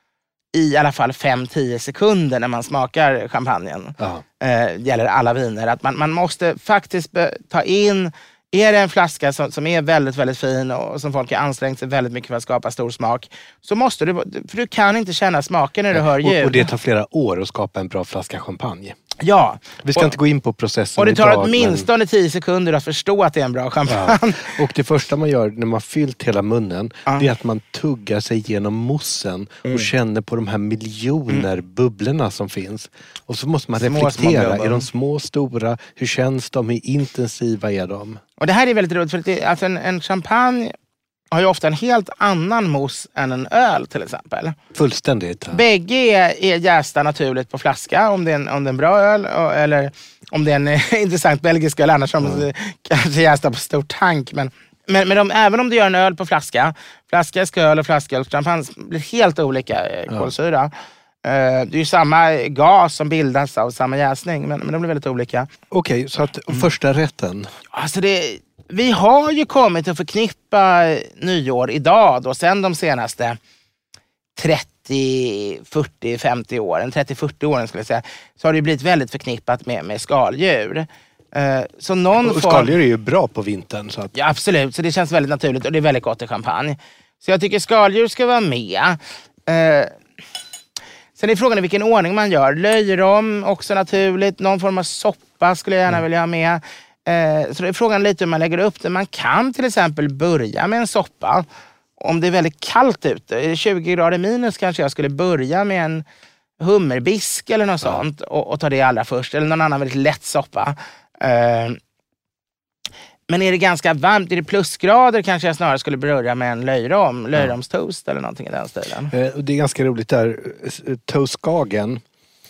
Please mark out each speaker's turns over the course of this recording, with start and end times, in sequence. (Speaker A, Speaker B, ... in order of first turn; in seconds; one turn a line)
Speaker A: 0.5-16.6
Speaker B: 4.0-4.2
Speaker B: 15.9-18.9
Speaker A: 19.2-20.1
Speaker B: 19.8-21.9
Speaker A: 20.9-24.5
Speaker B: 23.9-38.2
Speaker A: 33.8-34.9
Speaker A: 38.4-40.7
Speaker A: 41.3-44.5
Speaker B: 44.7-45.6
Speaker A: 45.5-60.7
Speaker B: 52.2-52.5
Speaker A: 61.2-65.5
Speaker B: 65.7-67.5
Speaker A: 67.7-73.4
Speaker A: 74.3-82.7
Speaker B: 82.2-84.1
Speaker A: 84.1-89.9
Speaker A: 91.2-101.5
Speaker A: 102.0-106.0
Speaker A: 106.6-111.8
Speaker A: 113.3-119.1
Speaker B: 119.1-122.0